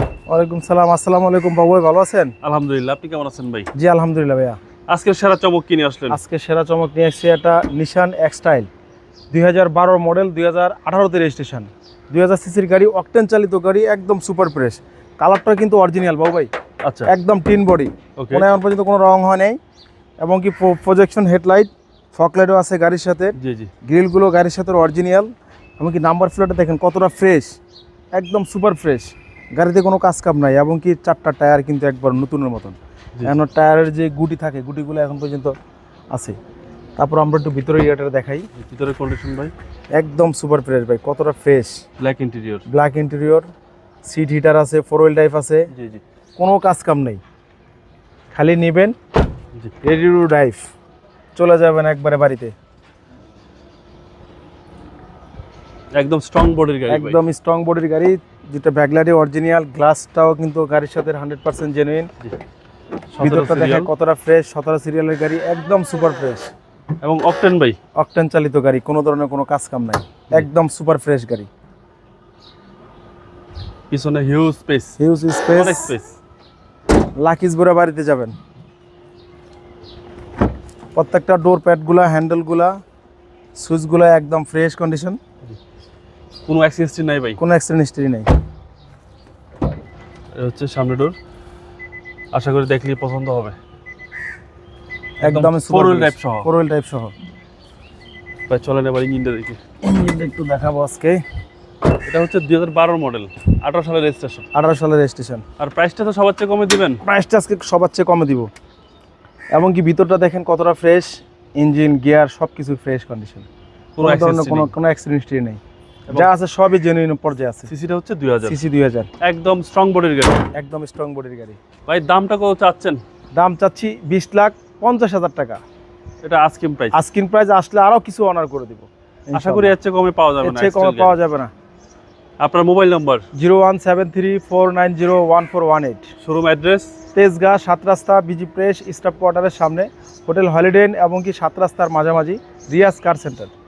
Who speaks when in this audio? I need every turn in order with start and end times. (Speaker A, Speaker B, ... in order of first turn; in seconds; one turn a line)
Speaker A: 0.3-2.3
Speaker B: 2.4-3.7
Speaker A: 3.7-4.6
Speaker B: 4.9-6.2
Speaker A: 6.1-8.7
Speaker A: 9.3-16.5
Speaker B: 16.8-17.1
Speaker A: 17.1-19.6
Speaker B: 18.2-18.5
Speaker A: 20.2-27.6
Speaker B: 23.4-23.7
Speaker A: 28.1-35.5
Speaker A: 36.1-36.4
Speaker A: 37.0-38.5
Speaker B: 38.6-39.5
Speaker A: 39.9-41.9
Speaker B: 42.0-42.6
Speaker A: 42.7-43.5
Speaker A: 44.0-45.7
Speaker B: 45.7-46.0
Speaker A: 46.4-47.2
Speaker A: 48.3-49.0
Speaker A: 49.8-50.7
Speaker A: 51.4-52.5
Speaker B: 55.9-57.2
Speaker A: 56.9-62.1
Speaker B: 63.1-63.9
Speaker A: 63.2-66.5
Speaker B: 67.0-67.8
Speaker A: 68.0-71.5
Speaker B: 73.9-75.0
Speaker A: 75.0-75.9
Speaker B: 75.5-76.1
Speaker A: 77.2-78.3
Speaker A: 81.0-82.8
Speaker A: 83.5-85.2
Speaker B: 86.5-87.4
Speaker A: 87.4-88.3
Speaker B: 90.3-91.2
Speaker B: 92.3-93.6
Speaker A: 95.2-97.1
Speaker B: 95.2-96.5
Speaker B: 98.5-99.6
Speaker A: 99.8-101.2
Speaker B: 102.0-104.5
Speaker A: 104.5-105.4
Speaker B: 105.6-107.0
Speaker A: 107.0-108.5
Speaker A: 109.5-113.5
Speaker B: 114.0-114.7
Speaker A: 114.0-117.7
Speaker B: 117.7-118.6
Speaker A: 118.4-119.1
Speaker B: 119.2-120.5
Speaker A: 120.5-121.6
Speaker B: 121.9-123.0
Speaker A: 123.3-125.6
Speaker B: 126.2-127.0
Speaker A: 126.9-129.8
Speaker B: 129.3-131.2
Speaker A: 130.4-131.5
Speaker B: 132.4-133.3
Speaker A: 133.3-136.1
Speaker B: 136.2-136.9
Speaker A: 137.1-143.5